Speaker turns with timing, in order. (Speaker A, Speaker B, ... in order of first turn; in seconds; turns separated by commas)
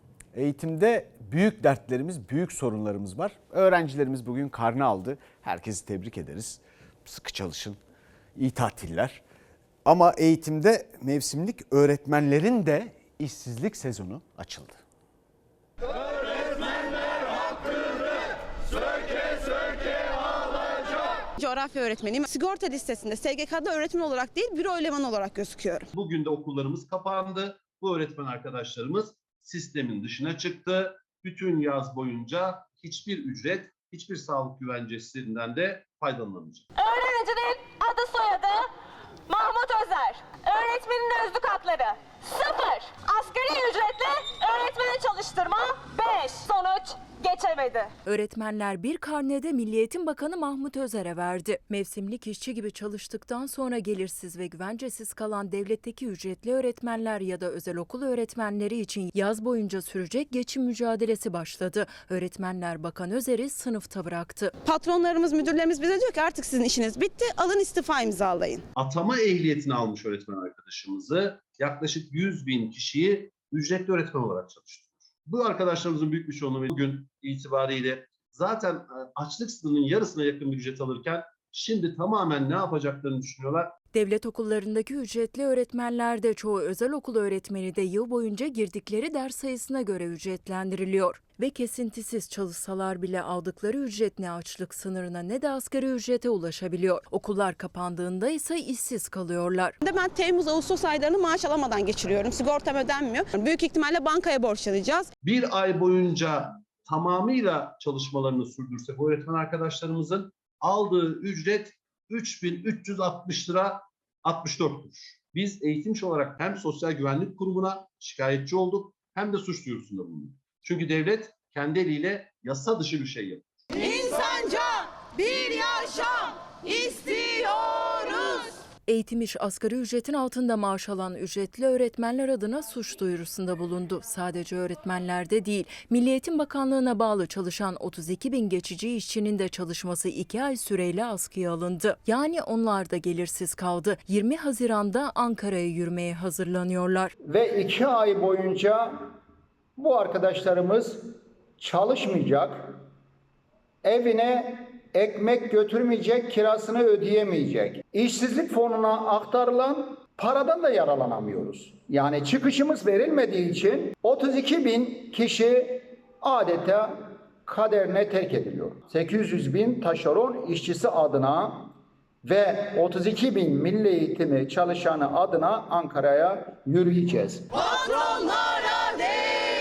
Speaker A: 0.3-7.8, Speaker A: 8.3-9.2, Speaker A: 9.8-14.8, Speaker B: 21.3-25.9, Speaker C: 25.9-36.6, Speaker D: 36.8-38.7, Speaker D: 39.3-47.9, Speaker E: 48.0-64.5, Speaker B: 64.6-68.6, Speaker C: 68.8-83.7, Speaker E: 83.9-99.7, Speaker B: 99.8-105.1, Speaker C: 105.2-123.4, Speaker B: 123.7-128.6, Speaker E: 128.9-147.1, Speaker F: 147.2-148.9, Speaker F: 149.8-151.0, Speaker F: 151.6-152.8, Speaker F: 153.8-171.7, Speaker F: 172.2-177.5, Speaker B: 177.8-179.0